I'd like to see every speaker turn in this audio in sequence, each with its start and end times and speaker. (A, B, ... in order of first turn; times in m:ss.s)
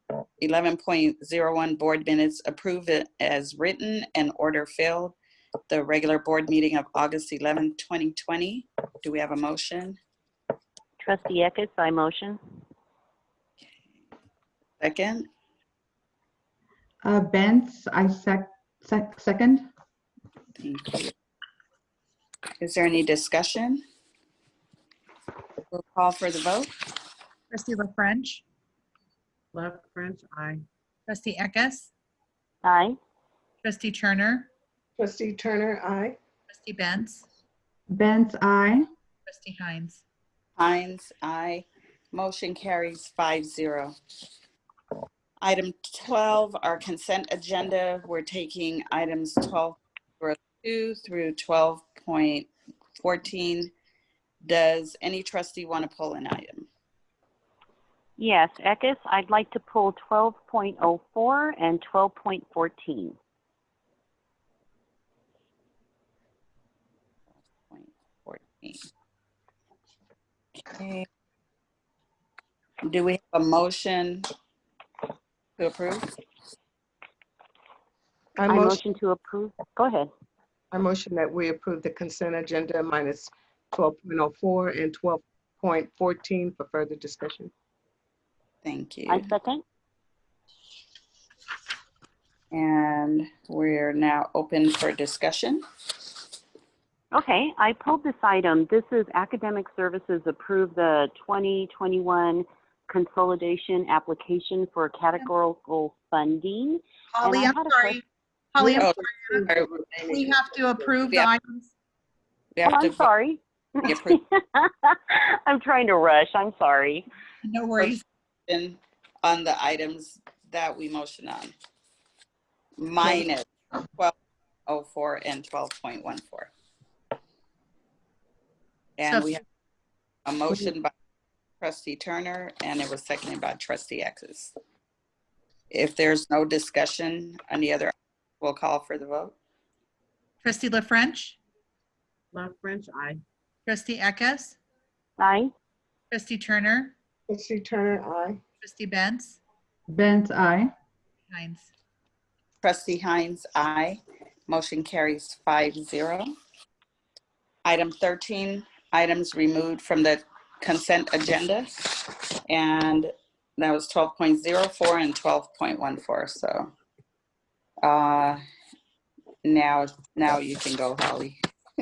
0:00.4-0:05.2 A
0:05.7-0:10.0 A
0:11.0-0:12.4 B
0:14.8-0:15.3 A
0:17.0-0:19.7 C
0:20.6-0:21.1 A
0:22.6-0:23.8 A
0:25.7-0:26.7 A
0:27.5-0:28.4 D
0:29.5-0:30.6 E
0:31.1-0:31.9 D
0:32.6-0:33.0 B
0:33.6-0:34.5 D
0:35.0-0:36.2 F
0:36.5-0:37.3 D
0:37.9-0:38.9 C
0:39.3-0:40.0 D
0:40.6-0:44.0 A
0:45.4-0:52.5 A
0:53.0-0:53.7 A
0:54.4-0:56.7 A
0:58.2-1:03.2 B
1:07.5-1:08.9 A
1:10.7-1:11.1 A
1:12.9-1:14.3 A
1:15.6-1:16.2 A
1:18.4-1:18.8 F
1:18.5-1:20.1 B
1:20.7-1:27.5 F
1:28.6-1:29.2 A
1:29.1-1:29.6 B
1:32.5-1:35.6 A
1:37.1-1:48.0 B
1:47.2-1:48.0 D
1:48.5-1:49.5 D
1:48.6-1:50.9 F
1:48.8-1:49.7 A
1:50.0-1:51.7 D
1:52.6-1:53.1 A
1:52.6-1:57.1 B
1:53.8-1:54.2 A
1:57.4-1:58.0 D
1:57.8-2:01.5 A
2:02.8-2:04.2 A
2:04.7-2:06.5 A
2:09.0-2:09.4 A
2:09.0-2:09.3 D
2:10.3-2:10.9 A
2:11.6-2:14.5 A
2:15.7-2:19.4 A
2:20.4-2:21.4 D
2:22.3-2:23.2 E
2:23.7-2:24.6 D
2:25.2-2:25.5 B
2:26.1-2:26.9 D
2:27.3-2:28.4 F
2:28.6-2:29.4 D
2:29.9-2:30.7 C
2:31.3-2:31.7 D
2:32.6-2:36.3 A
2:37.6-2:46.7 A
2:47.8-2:48.4 A
2:49.4-2:51.4 A